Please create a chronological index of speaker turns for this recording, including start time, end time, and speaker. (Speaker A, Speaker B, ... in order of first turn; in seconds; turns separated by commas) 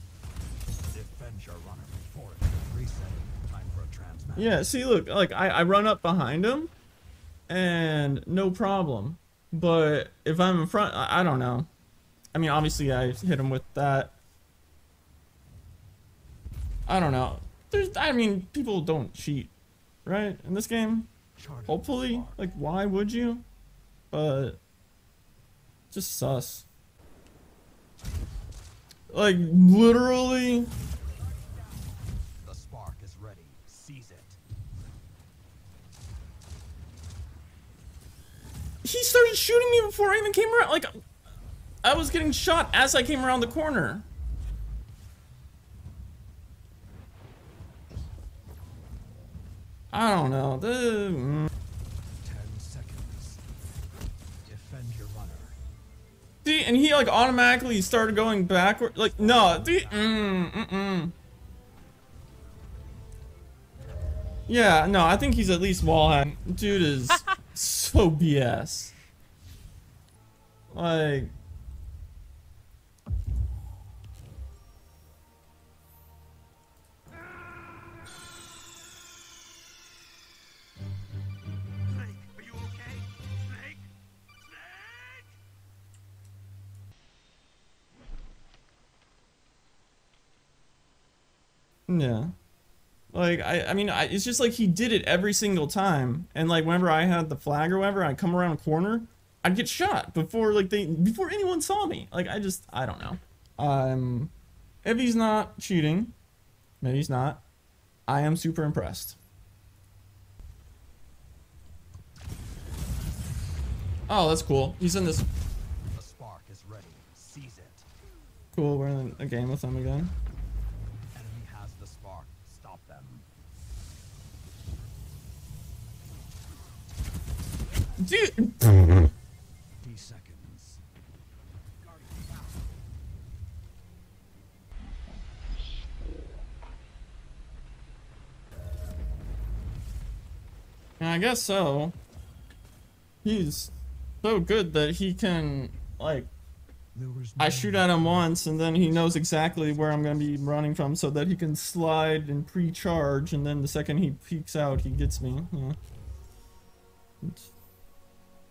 Speaker A: 0.9-4.6, Speaker B: 4.3-6.7, Speaker B: 7.5-11.7, Speaker B: 12.3-14.1, Speaker B: 16.9-19.5, Speaker B: 20.1-21.1, Speaker A: 21.4-22.4, Speaker B: 21.6-23.4, Speaker B: 24.1-24.6, Speaker B: 25.9-26.7, Speaker B: 29.1-30.7, Speaker A: 32.4-34.4, Speaker B: 38.8-41.0, Speaker B: 41.8-44.0, Speaker B: 49.9-51.5, Speaker A: 52.2-53.4, Speaker A: 54.4-55.5, Speaker B: 56.4-61.1, Speaker A: 59.1-60.2, Speaker B: 64.5-68.9, Speaker B: 70.7-71.3, Speaker A: 82.0-83.0, Speaker B: 91.9-92.3, Speaker B: 93.1-104.3, Speaker B: 104.8-106.1, Speaker B: 106.8-107.4, Speaker B: 108.1-109.2, Speaker B: 114.1-115.3, Speaker A: 115.9-117.9, Speaker B: 118.5-120.1, Speaker A: 121.1-123.2, Speaker B: 128.0-128.8, Speaker A: 129.8-130.8, Speaker B: 141.0-141.9, Speaker B: 143.2-146.3, Speaker A: 146.9-150.7, Speaker B: 147.4-155.8, Speaker B: 157.2-157.5